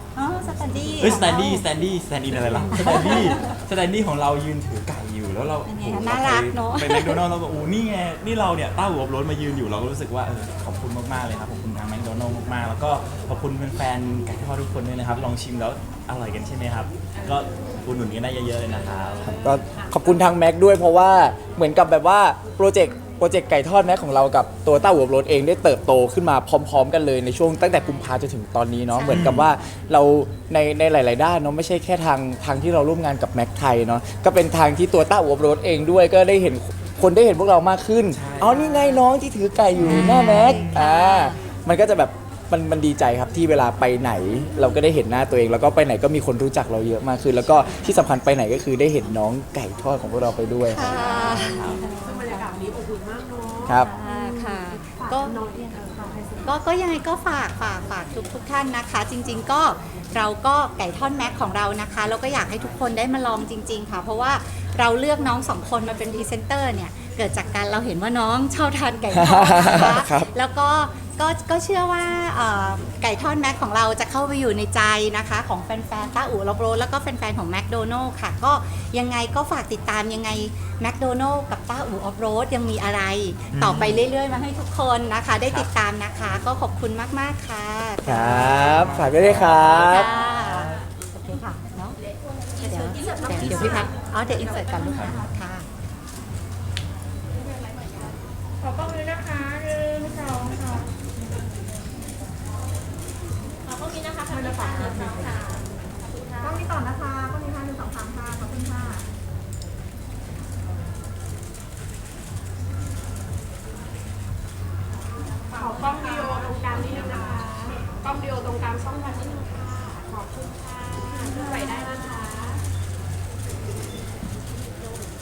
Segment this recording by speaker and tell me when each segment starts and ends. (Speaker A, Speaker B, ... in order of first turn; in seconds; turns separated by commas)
Speaker A: 0.2-1.6, Speaker B: 1.0-19.4, Speaker A: 2.7-3.4, Speaker A: 5.7-7.2, Speaker C: 19.2-20.1, Speaker D: 19.2-51.1, Speaker A: 28.9-29.6, Speaker B: 29.1-29.5, Speaker B: 38.1-38.9, Speaker B: 39.8-40.8, Speaker A: 40.0-41.4, Speaker A: 50.7-51.7, Speaker B: 50.8-51.9, Speaker C: 51.9-53.9, Speaker D: 53.7-53.9, Speaker A: 53.9-55.4, Speaker C: 55.0-56.5, Speaker A: 56.4-92.0, Speaker D: 69.1-70.3, Speaker B: 83.5-84.0, Speaker D: 88.0-90.1, Speaker B: 88.6-90.0, Speaker A: 92.6-95.7, Speaker B: 93.3-93.9, Speaker B: 94.8-95.2, Speaker E: 98.6-100.8, Speaker E: 103.8-105.6, Speaker A: 104.6-105.2, Speaker E: 106.3-106.9, Speaker A: 106.4-109.0, Speaker C: 115.5-122.6